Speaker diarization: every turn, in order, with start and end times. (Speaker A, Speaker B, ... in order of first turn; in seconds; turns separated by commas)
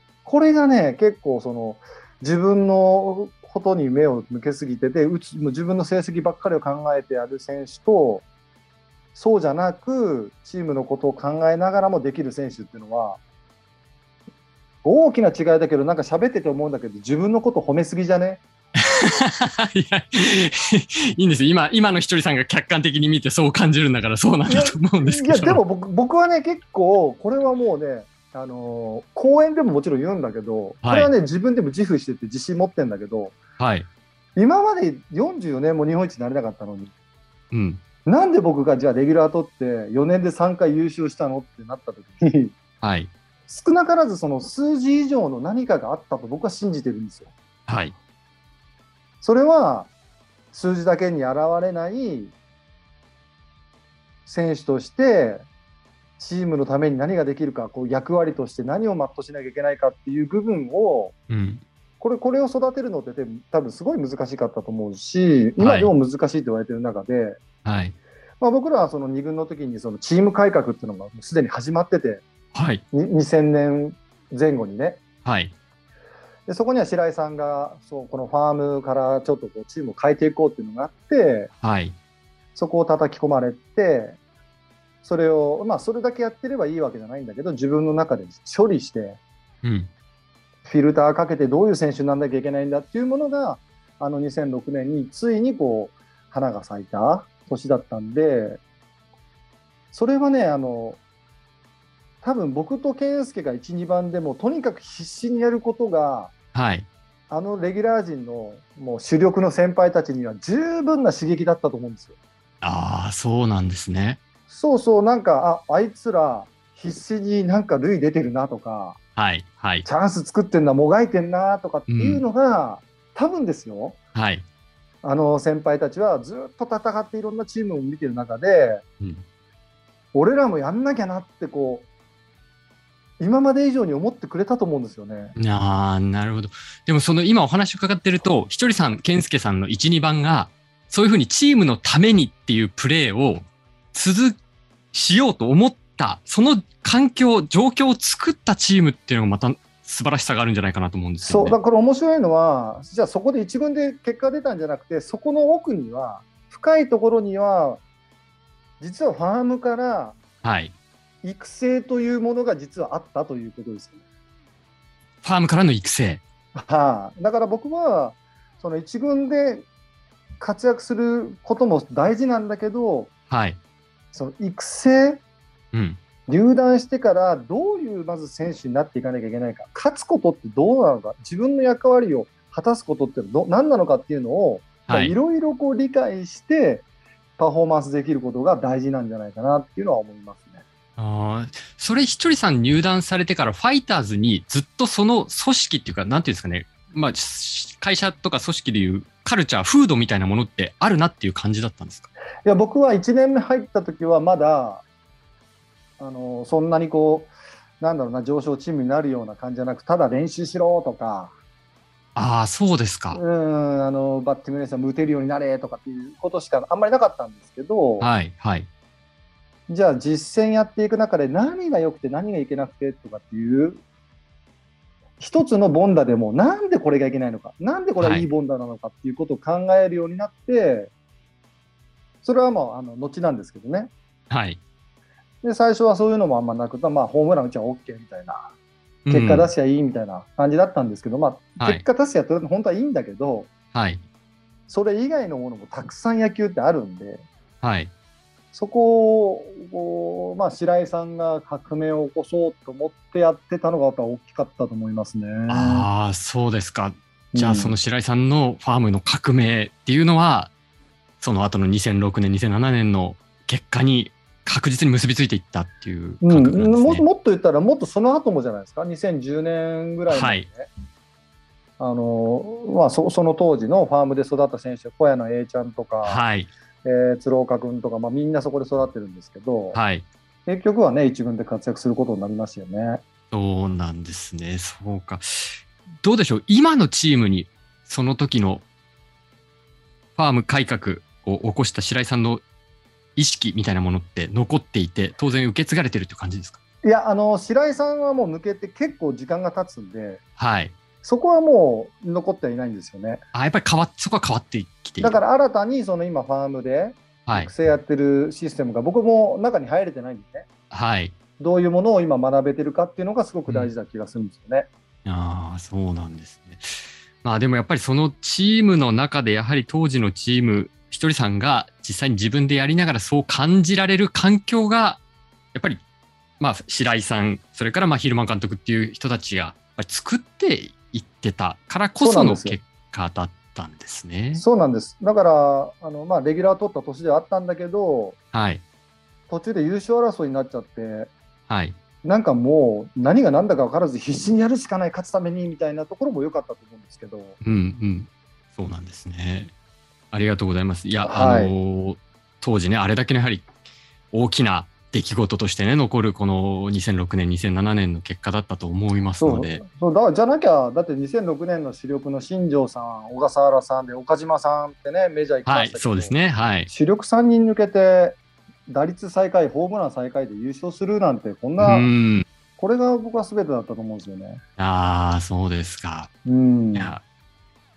Speaker A: 0.2-8.2, Speaker A: 9.1-13.2, Speaker A: 14.8-18.4, Speaker B: 18.9-25.6, Speaker A: 24.5-33.4, Speaker B: 30.8-31.1, Speaker B: 33.6-33.9, Speaker A: 34.4-36.9, Speaker B: 37.5-37.8, Speaker A: 38.0-42.5, Speaker B: 42.8-43.1, Speaker A: 43.5-47.3, Speaker B: 47.7-47.9, Speaker A: 49.2-49.9, Speaker A: 50.5-52.3, Speaker A: 54.2-55.4, Speaker A: 56.2-61.1, Speaker B: 61.3-61.6, Speaker A: 62.0-67.4, Speaker B: 65.6-65.9, Speaker B: 67.6-67.9, Speaker A: 68.4-72.2, Speaker B: 72.5-72.8, Speaker A: 72.9-75.0, Speaker B: 75.2-75.5, Speaker A: 76.5-81.5, Speaker B: 81.6-81.9, Speaker A: 82.5-84.2, Speaker A: 85.0-89.2, Speaker B: 89.6-89.9, Speaker A: 90.7-98.6, Speaker A: 99.9-101.0, Speaker A: 102.2-106.3, Speaker B: 106.5-106.9, Speaker A: 107.3-112.1, Speaker B: 112.6-114.2, Speaker A: 114.5-119.0, Speaker B: 119.2-119.8, Speaker A: 119.8-124.0, Speaker B: 121.9-122.2, Speaker B: 124.1-124.4, Speaker A: 125.0-128.8, Speaker A: 130.1-131.9, Speaker A: 133.2-135.3, Speaker B: 135.4-144.4, Speaker B: 144.9-151.6, Speaker A: 151.2-157.8, Speaker A: 158.8-160.2, Speaker B: 160.4-160.7, Speaker A: 161.2-164.0, Speaker B: 165.2-166.2, Speaker A: 166.6-169.7, Speaker A: 170.4-173.1, Speaker B: 173.3-173.6, Speaker A: 174.1-175.2, Speaker B: 175.7-176.0, Speaker A: 176.3-186.8, Speaker B: 184.9-185.2, Speaker A: 187.4-190.6, Speaker B: 191.0-202.1, Speaker A: 202.4-204.8, Speaker A: 206.0-211.3, Speaker B: 212.1-213.2, Speaker A: 213.1-218.1, Speaker B: 218.0-218.7, Speaker A: 219.7-223.8, Speaker A: 225.2-230.9, Speaker B: 228.0-228.3, Speaker A: 232.2-233.9, Speaker B: 234.3-234.6, Speaker A: 235.4-238.4, Speaker B: 239.1-239.5, Speaker A: 239.1-243.5, Speaker B: 241.6-241.8, Speaker B: 243.7-244.0, Speaker A: 244.7-247.2, Speaker B: 247.6-247.9, Speaker A: 248.5-255.9, Speaker B: 255.5-260.5, Speaker A: 257.3-257.8, Speaker B: 261.2-267.0, Speaker A: 266.2-270.7, Speaker B: 270.1-270.4, Speaker A: 271.8-276.2, Speaker B: 276.0-276.5, Speaker A: 276.8-279.8, Speaker B: 279.7-280.1, Speaker A: 280.5-283.0, Speaker B: 283.3-288.6, Speaker B: 290.2-292.4, Speaker B: 293.2-296.6, Speaker A: 296.8-300.2, Speaker B: 300.4-300.7, Speaker A: 301.0-303.2, Speaker B: 303.3-305.2, Speaker A: 305.0-310.4, Speaker B: 307.2-307.5, Speaker B: 310.7-311.1, Speaker A: 311.4-314.7, Speaker B: 315.1-325.0, Speaker B: 325.5-325.8, Speaker B: 326.4-334.4, Speaker A: 332.0-332.6, Speaker A: 334.3-338.2, Speaker B: 338.3-338.6, Speaker A: 339.3-341.1, Speaker B: 341.5-341.8, Speaker A: 342.0-347.4, Speaker B: 347.4-349.5, Speaker B: 350.1-353.5, Speaker A: 351.0-351.5, Speaker B: 354.1-359.6, Speaker A: 359.2-368.2, Speaker B: 365.4-366.7, Speaker A: 368.7-371.9, Speaker B: 371.6-372.2, Speaker A: 372.6-374.4, Speaker B: 374.6-376.1, Speaker A: 376.2-376.9, Speaker B: 376.7-377.0